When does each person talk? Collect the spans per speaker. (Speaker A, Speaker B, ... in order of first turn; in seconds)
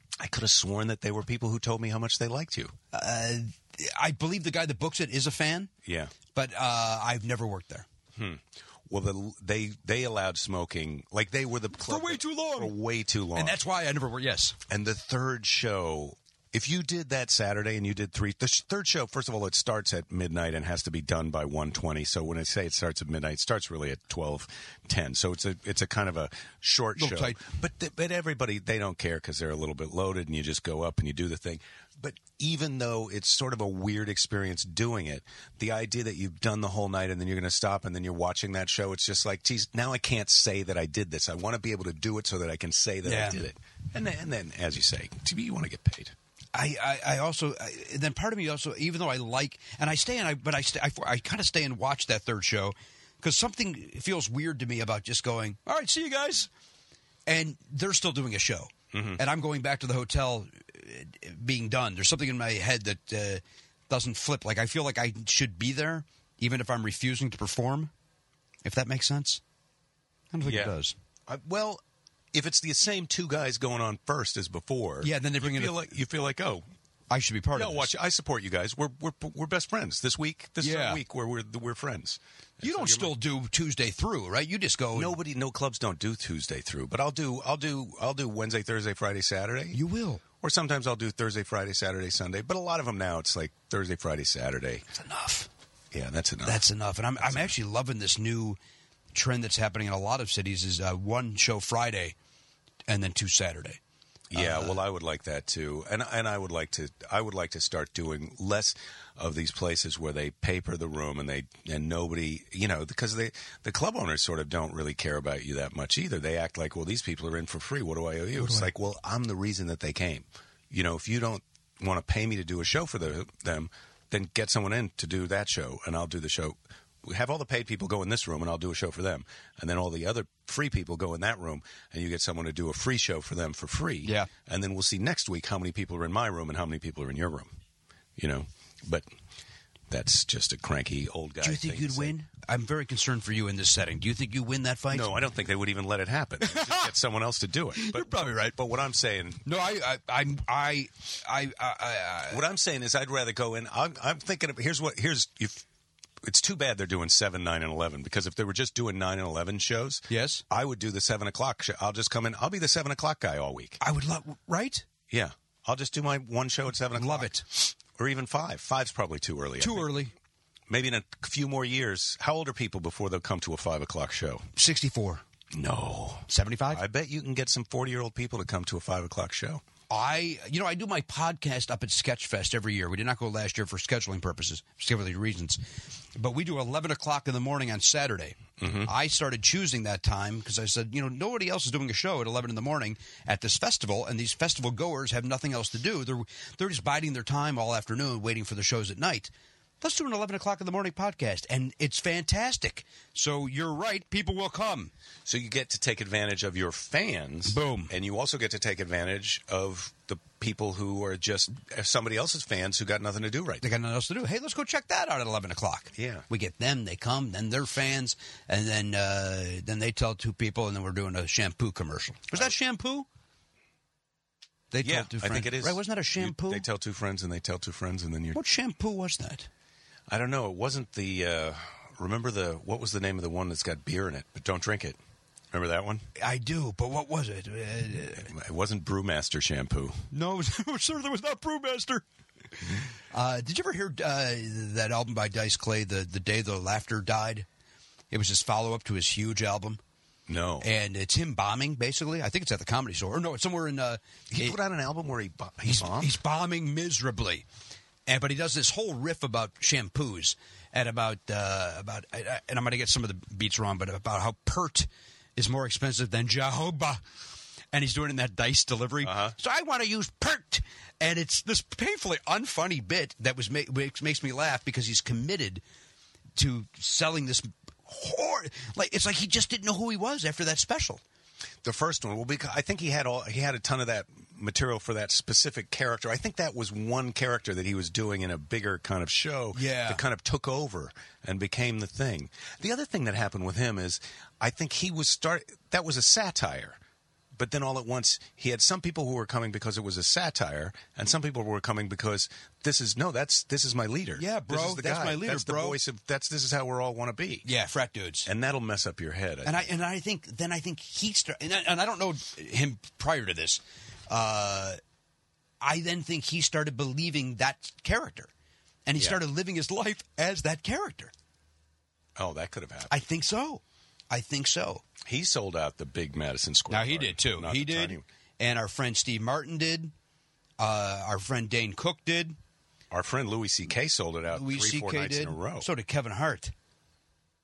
Speaker A: 0.2-2.7, 5.8-6.1, 8.2-13.6, 14.7-46.1, 58.9-59.2, 70.5-70.7, 71.3-71.8, 72.3-76.6, 77.5-83.2, 85.0-89.8, 90.4-94.8, 95.9-96.6, 97.2-97.5, 104.3-137.5, 138.2-139.1, 139.9-142.1, 144.9-149.5, 152.3-155.7, 156.2-163.8, 165.1-170.0, 170.7-174.4, 175.5-179.6, 188.6-188.9, 205.3-213.6, 215.9-216.3, 224.8-228.4, 230.1-235.0, 235.5-236.0, 238.2-240.0, 250.3-250.7, 254.3-256.1, 269.0-269.3, 281.6-296.8, 297.4-307.4, 308.3-309.7, 322.2-322.9, 325.0-328.1, 332.9-335.7
Speaker B: 2.9-5.7, 6.3-7.9, 11.8-12.7, 13.3-14.6, 27.0-27.4, 43.0-43.4, 46.5-56.5, 57.3-67.9, 68.6-69.4, 70.3-71.0, 75.0-75.8, 77.1-77.9, 80.6-81.0, 82.6-85.2, 89.7-90.2, 94.9-95.5, 96.4-98.6, 99.1-102.2, 102.9-103.8, 104.3-104.8, 118.4-118.7, 134.0-134.3, 141.4-145.1, 146.4-146.9, 147.8-148.6, 149.4-152.4, 160.1-160.4, 163.8-164.9, 167.0-167.4, 169.6-170.1, 174.6-175.2, 176.3-176.8, 179.9-185.6, 186.2-204.9, 207.5-207.9, 213.6-223.1, 224.7-226.6, 228.3-229.5, 236.2-238.3, 240.1-242.1, 243.1-247.4, 248.1-249.8, 250.6-254.6, 255.7-257.4, 258.1-267.0, 267.7-275.6, 276.4-281.0, 289.5-290.0, 304.2-305.8, 307.4-308.3, 309.4-314.8, 315.6-318.3, 318.9-321.1, 322.9-324.9, 326.7-329.9, 330.6-332.4, 334.3-336.5